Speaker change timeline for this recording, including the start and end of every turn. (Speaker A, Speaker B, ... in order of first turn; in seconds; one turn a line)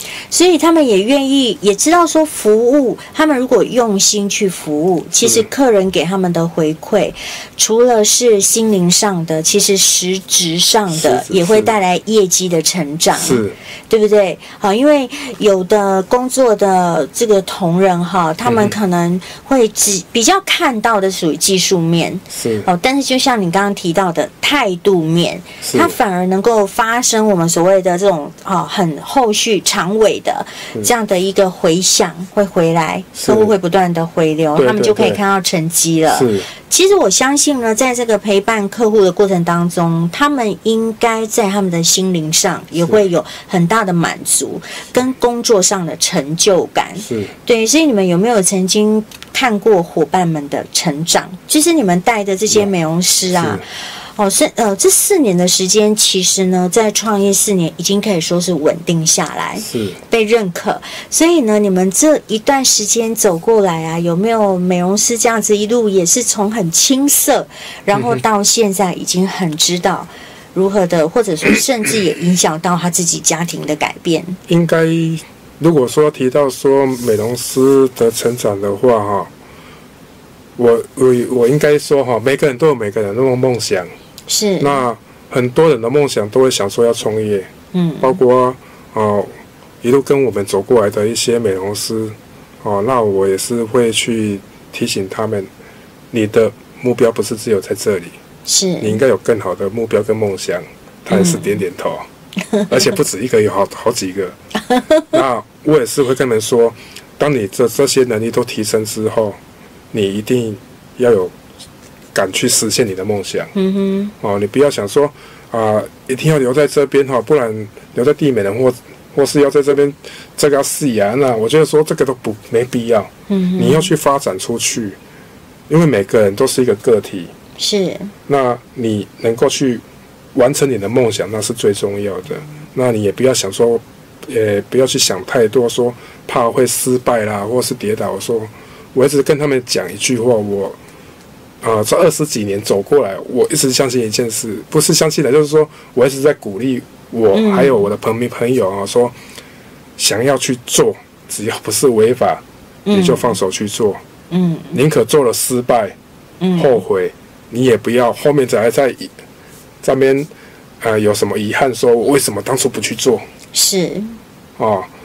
Speaker A: 0.3-74.4
Speaker B: 5.2-5.5
Speaker B: 10.9-11.7
Speaker B: 13.2-13.6
Speaker B: 18.4-18.7
Speaker B: 22.3-22.7
Speaker B: 25.6-26.0
Speaker B: 33.2-33.5
Speaker B: 34.5-35.2
Speaker B: 36.1-36.5
Speaker B: 47.0-47.3
Speaker B: 53.3-53.6
Speaker B: 59.6-60.0
Speaker B: 67.9-68.2
Speaker B: 74.5-79.3
Speaker B: 80.6-83.9
Speaker A: 84.3-84.8
Speaker B: 84.6-95.5
Speaker A: 87.7-88.2
Speaker B: 96.1-98.2
Speaker A: 98.5-99.0
Speaker B: 98.8-102.1
Speaker A: 101.1-101.5
Speaker B: 102.7-104.4
Speaker B: 105.1-109.4
Speaker B: 109.9-111.3
Speaker B: 112.1-113.5
Speaker A: 113.5-114.1
Speaker B: 114.2-125.0
Speaker A: 123.3-123.9
Speaker B: 125.7-127.3
Speaker A: 127.6-128.1
Speaker B: 128.3-129.8
Speaker B: 130.3-140.8
Speaker B: 141.6-149.2
Speaker A: 147.3-147.9
Speaker B: 150.0-154.0
Speaker A: 152.9-153.3
Speaker A: 154.3-154.8
Speaker B: 154.7-156.0
Speaker A: 156.4-156.8
Speaker B: 156.6-159.1
Speaker B: 159.8-163.2
Speaker A: 163.5-164.2
Speaker B: 164.6-164.9